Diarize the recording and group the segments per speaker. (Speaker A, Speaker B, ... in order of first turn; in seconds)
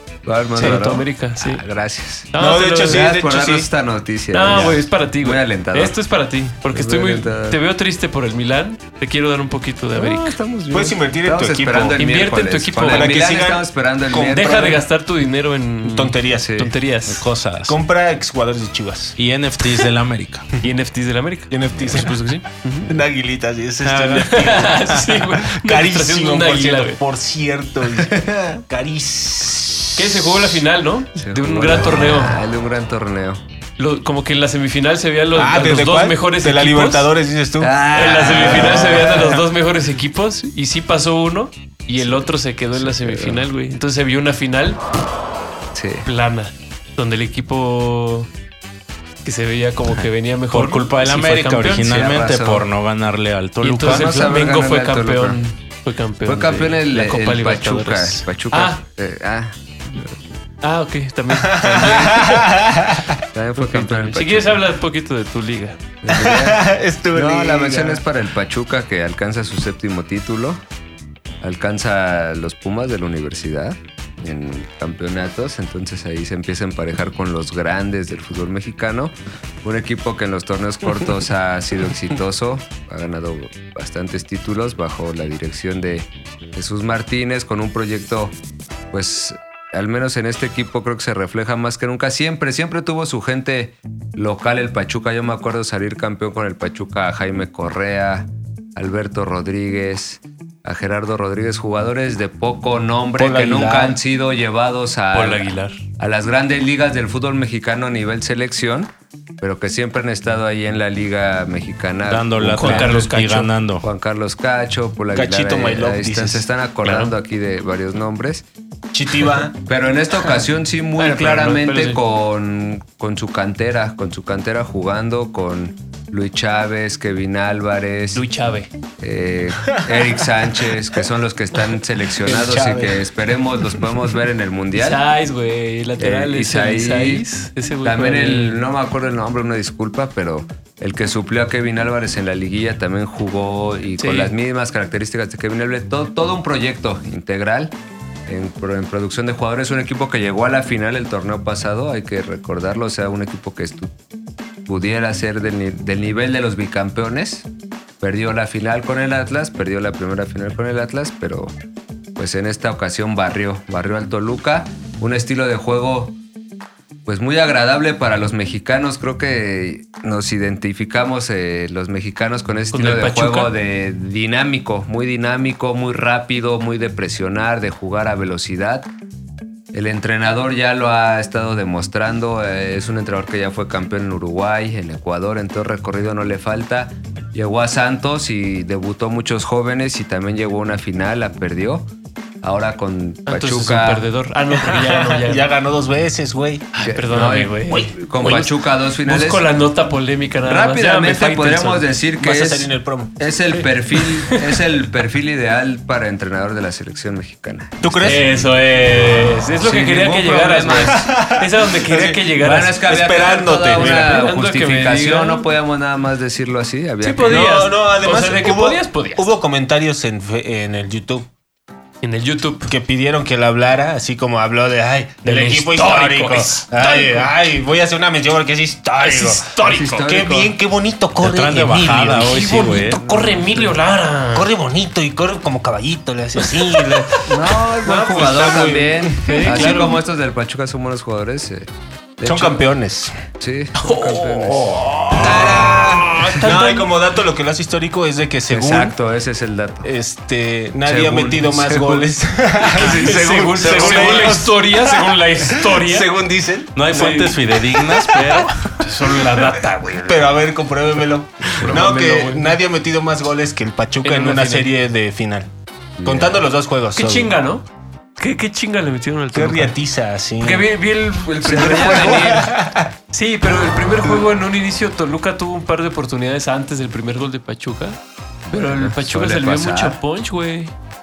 Speaker A: 0.2-2.3, 2.8-6.0, 6.7-7.6, 9.9-14.8, 16.3-16.7, 28.0-28.6, 31.2-33.4, 37.6-39.3, 42.0-43.5, 45.7-46.1, 51.8-52.7, 53.8-55.4, 56.3-60.2, 63.3-64.6, 66.0-70.6, 71.4-88.3, 88.9-113.1, 113.8-118.5, 119.6-128.3, 129.0-135.0, 136.0-137.3, 137.8-147.8, 148.3-153.9, 154.7-157.5, 158.0-161.6, 162.2-166.2, 167.1-178.9, 179.7-191.9, 192.4-194.1, 196.8-199.5, 200.4-208.6, 209.1-211.1, 212.4-217.6, 229.6-230.6, 233.0-233.5, 237.2-242.6, 243.4-246.2, 248.5-249.9, 250.8-252.1, 266.0-266.4, 271.3-272.4, 278.4-280.0
Speaker B: 0.6-1.6, 2.3-3.1, 4.3-10.4, 11.9-13.2, 14.2-17.3, 20.6-22.9, 24.3-27.0, 29.9-32.4, 33.8-37.1, 37.9-44.8, 46.0-48.3, 49.2-52.1, 53.6-58.8, 60.6-62.5, 63.6-65.8, 105.1-105.8, 112.6-113.5, 116.8-117.1, 121.0-122.0, 128.1-128.7, 134.7-138.6, 144.0-144.3, 172.7-173.5, 193.3-195.5, 196.7-201.9, 203.6-204.4, 208.0-212.8, 213.7-215.5, 217.0-219.3, 222.0-222.7, 225.2-227.3, 229.0-230.1, 232.2-234.5, 236.5-237.3, 239.2-240.0, 243.8-246.9, 252.7-256.1, 256.9-257.4, 258.8-260.2, 261.6-262.6, 264.0-264.7, 266.9-267.6, 268.2-269.8, 270.4-272.5, 273.1-278.0, 278.5-280.7
Speaker C: 0.6-0.9, 2.4-3.7, 10.7-12.0, 12.8-14.8, 15.8-16.5, 17.7-19.2, 21.5-22.3, 22.9-24.8, 25.5-30.6, 35.4-39.4, 61.4-63.2, 66.1-68.0, 103.2-104.0, 115.1-116.5, 118.9-119.5, 132.2-133.0, 194.5-196.7, 202.2-203.2, 207.8-208.3, 210.8-212.2, 212.8-214.3, 217.3-221.3, 222.7-229.5, 230.0-232.5, 234.3-237.3, 237.8-239.9, 242.2-243.1, 245.1-248.9, 249.8-258.4, 260.0-265.5, 266.1-267.3, 269.3-270.7, 271.4-272.9
Speaker D: 17.1-17.8, 19.2-20.5, 23.8-25.3, 50.0-54.2, 112.1-113.9, 231.2-233.0, 253.6-254.4, 256.8-258.9